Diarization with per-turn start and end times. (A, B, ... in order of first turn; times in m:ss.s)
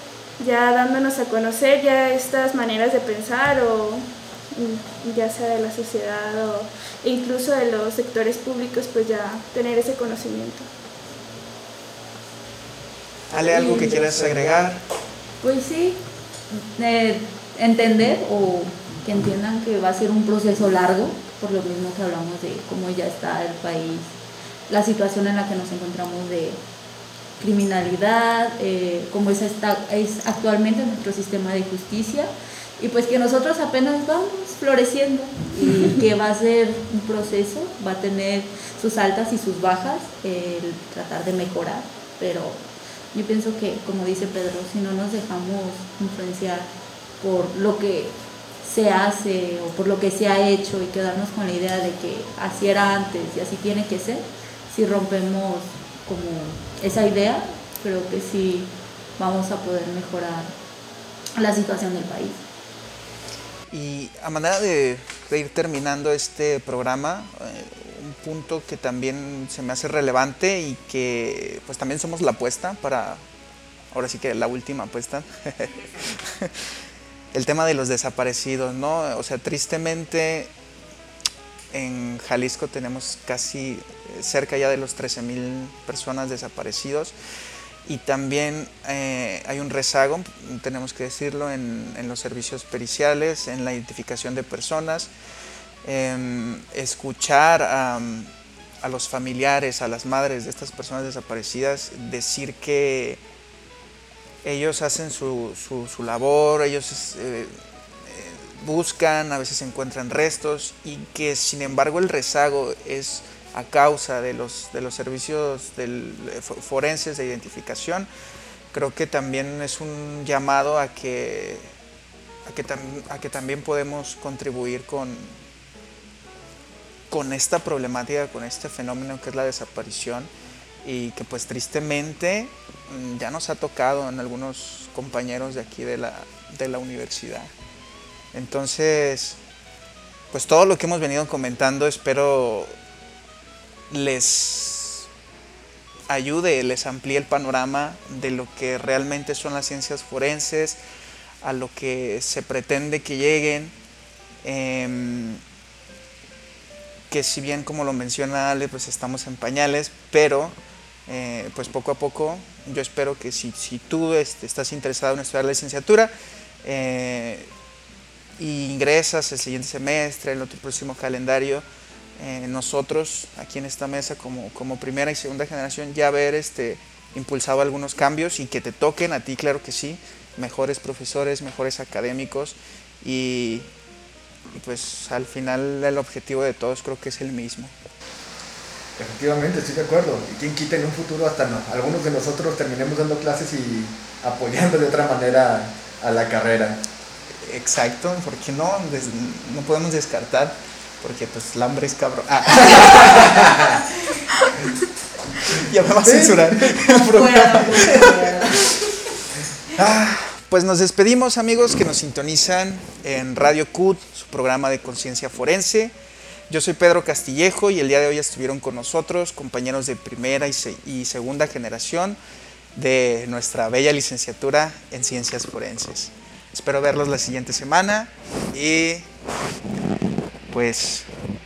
0:00.4-0:10.7 A
0:13.3-0:14.8 B
0:13.5-0:13.9 C
0:15.4-0:24.1 C
0:24.7-0:26.6 C
0:27.4-0:42.6 C
0:43.1-0:46.7 C
0:47.2-1:00.5 C
1:01.4-1:02.4 C
1:03.7-1:13.2 B
1:13.9-1:16.5 B
1:17.3-1:20.5 B
1:21.7-1:27.1 B
1:27.8-1:35.1 B
1:35.8-1:38.3 B
1:38.8-1:43.2 B
1:44.4-1:47.5 B
1:48.1-1:58.1 B
1:58.7-2:01.7 B
2:02.4-2:05.3 B
2:07.1-2:10.3 B
2:10.8-2:17.5 B
2:18.3-2:19.4 B
2:20.3-2:22.7 B
2:23.9-2:25.1 B
2:26.1-2:30.8 B
2:31.4-2:33.7 B
2:34.4-2:35.4 B
2:37.1-2:40.5 B
2:41.1-2:46.1 B
2:46.6-2:47.5 B
2:48.4-2:51.6 B
2:52.2-3:03.7 B
3:04.5-3:07.7 B
3:09.0-3:16.8 D
3:17.4-3:23.7 B
3:23.3-3:23.6 D
3:24.3-3:24.6 B
3:25.4-3:28.7 B
3:26.0-3:27.5 D
3:27.0-3:28.8 C
3:29.7-3:35.9 B
3:36.5-3:42.2 B
3:42.7-3:49.1 B
3:50.5-3:51.1 B